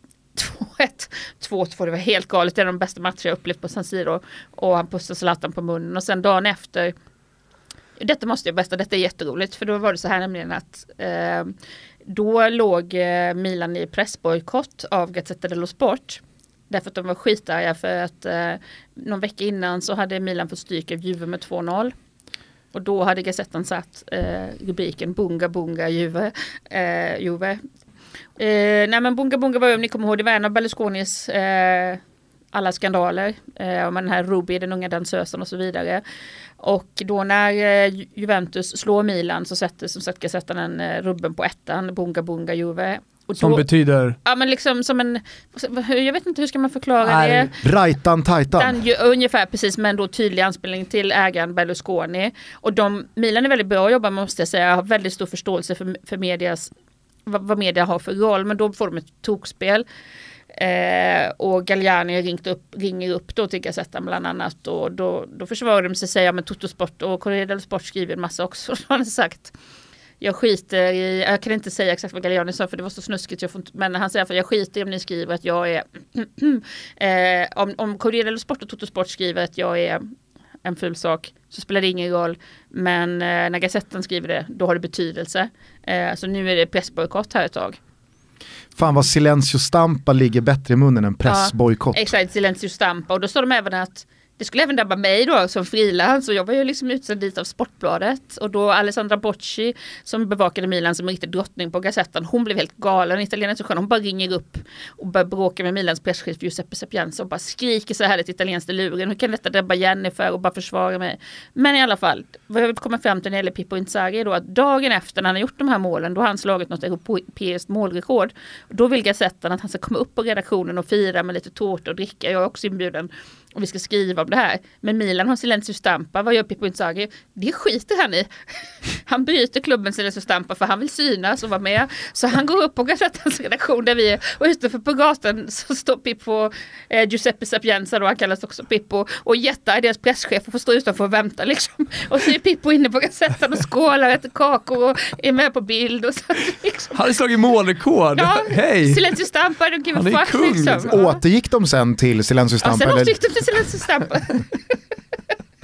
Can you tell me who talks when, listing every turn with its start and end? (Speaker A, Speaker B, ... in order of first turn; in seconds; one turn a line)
Speaker A: 0.3-6.9
Speaker A: 8.0-21.9
Speaker A: 22.7-27.6
Speaker A: 28.4-32.0
Speaker A: 32.5-36.0
Speaker A: 36.6-43.6
Speaker B: 43.4-44.2
Speaker A: 44.2-47.5
Speaker B: 47.0-47.5
Speaker C: 47.6-48.8
Speaker A: 48.5-56.7
Speaker A: 57.2-59.8
Speaker A: 60.5-69.5
Speaker A: 70.2-80.1
Speaker A: 80.6-87.8
Speaker C: 88.8-92.1
Speaker A: 91.2-147.0
Speaker B: 146.9-149.1
Speaker A: 148.1-151.2
Speaker B: 149.9-150.9
Speaker C: 150.9-153.2
Speaker A: 152.6-154.8